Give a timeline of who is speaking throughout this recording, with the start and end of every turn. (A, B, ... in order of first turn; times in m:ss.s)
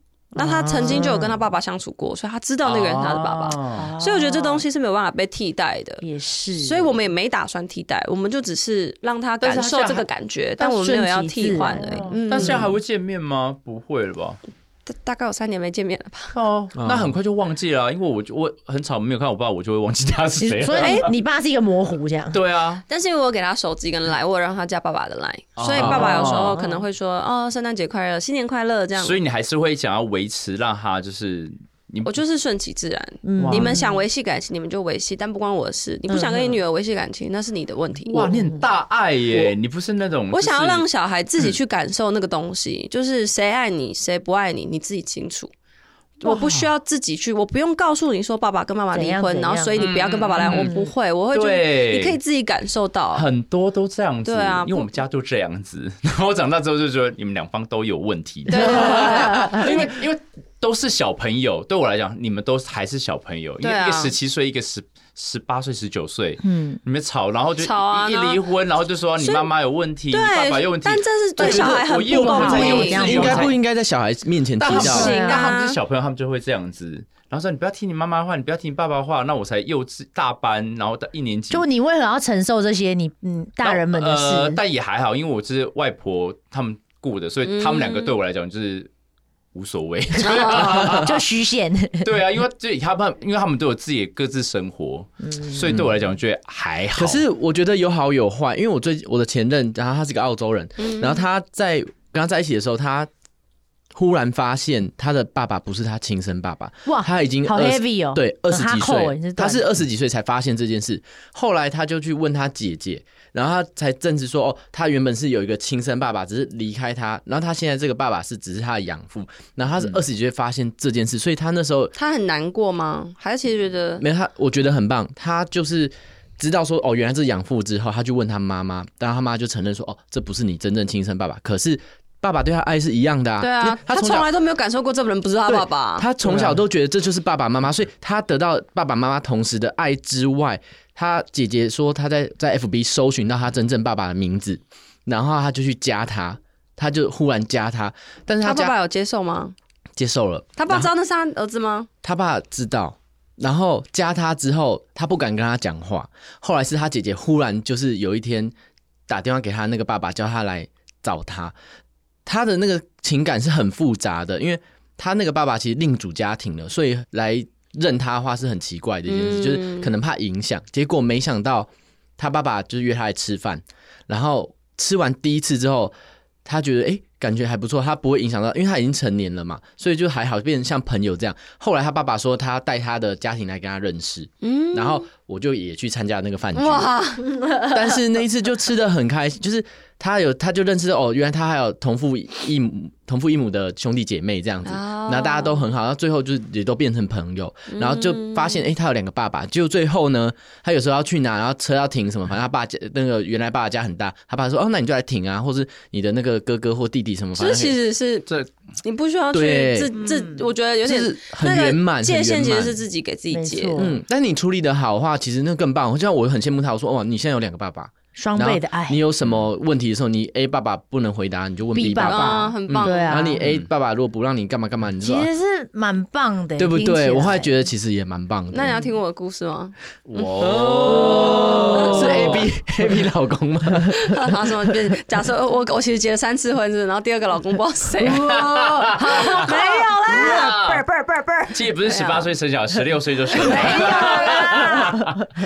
0:00.3-0:01.4 A
0:00.3-0:06.0 B
0:02.6-0:03.9 C
0:03.8-0:04.6 A
0:06.0-0:06.9 A
0:06.6-0:12.7 B
0:09.4-0:10.0 C
0:10.6-0:12.8 A
0:12.0-0:14.4 C
0:14.8-0:16.3 B
0:16.3-0:21.1 C
0:16.7-0:17.2 D
0:20.4-0:22.4 A
0:20.8-0:21.1 B
0:22.3-0:22.8 C
0:22.9-0:29.2 B
0:25.6-0:26.6 C
0:25.8-0:26.8 A
0:29.0-0:32.2 C
0:32.0-0:38.3 B
0:33.2-0:34.0 A
0:33.4-0:33.8 C
0:36.1-0:36.6 A
0:38.1-0:40.8 C
0:38.2-0:38.6 A
0:40.3-0:45.5 B
0:46.2-0:53.3 B
0:46.2-0:46.6 A
0:48.9-0:50.9 A
0:49.8-0:50.7 C
0:51.3-0:52.2 C
0:53.1-1:13.6 C
0:54.2-0:54.9 B
0:58.5-0:59.9 B
0:58.6-0:59.7 A
1:03.6-1:04.1 B
1:06.4-1:06.8 A
1:07.6-1:08.4 B
1:09.2-1:09.5 B
1:10.1-1:13.4 B
1:11.4-1:13.5 A
1:12.6-1:15.1 D
1:14.6-1:21.6 C
1:14.6-1:15.8 B
1:14.9-1:15.5 A
1:21.5-1:24.6 A
1:23.6-1:28.9 C
1:27.4-1:28.1 B
1:29.5-1:31.2 C
1:30.2-1:30.7 B
1:30.7-1:32.1 A
1:32.0-1:37.2 C
1:35.2-1:35.7 A
1:37.0-1:43.1 D
1:40.8-1:41.2 B
1:43.9-2:01.9 D
1:46.8-1:49.6 A
2:01.9-2:04.0 B
2:04.0-2:14.3 D
2:13.4-2:16.1 B
2:15.5-2:28.7 D
2:16.2-2:16.6 C
2:28.4-2:29.5 B
2:30.0-2:30.9 D
2:30.6-2:31.9 B
2:32.0-2:38.5 D
2:39.1-2:41.5 D
2:42.2-2:55.9 D
2:49.1-2:49.9 B
2:56.4-3:06.9 D
3:04.4-3:05.0 B
3:06.5-3:07.3 B
3:07.3-3:07.8 A
3:07.7-3:27.8 D
3:14.6-3:15.6 B
3:17.7-3:18.6 B
3:27.3-3:28.3 B
3:28.8-3:33.8 B
3:29.3-3:29.9 D
3:30.0-3:30.4 A
3:30.8-3:32.8 D
3:33.3-3:34.0 A
3:33.8-3:45.3 D
3:38.1-3:39.0 A
3:41.7-3:43.4 A
3:42.0-3:43.3 B
3:45.0-3:47.5 A
3:46.6-3:48.8 D
3:48.5-3:50.4 B
3:50.1-3:52.5 C
3:50.4-3:54.3 D
3:51.0-3:52.0 A
3:51.2-3:52.2 B
3:54.0-4:02.3 B
3:58.0-4:00.8 C
3:58.0-4:00.4 A
4:01.5-4:05.2 C
4:03.4-4:04.9 B
4:03.4-4:05.0 A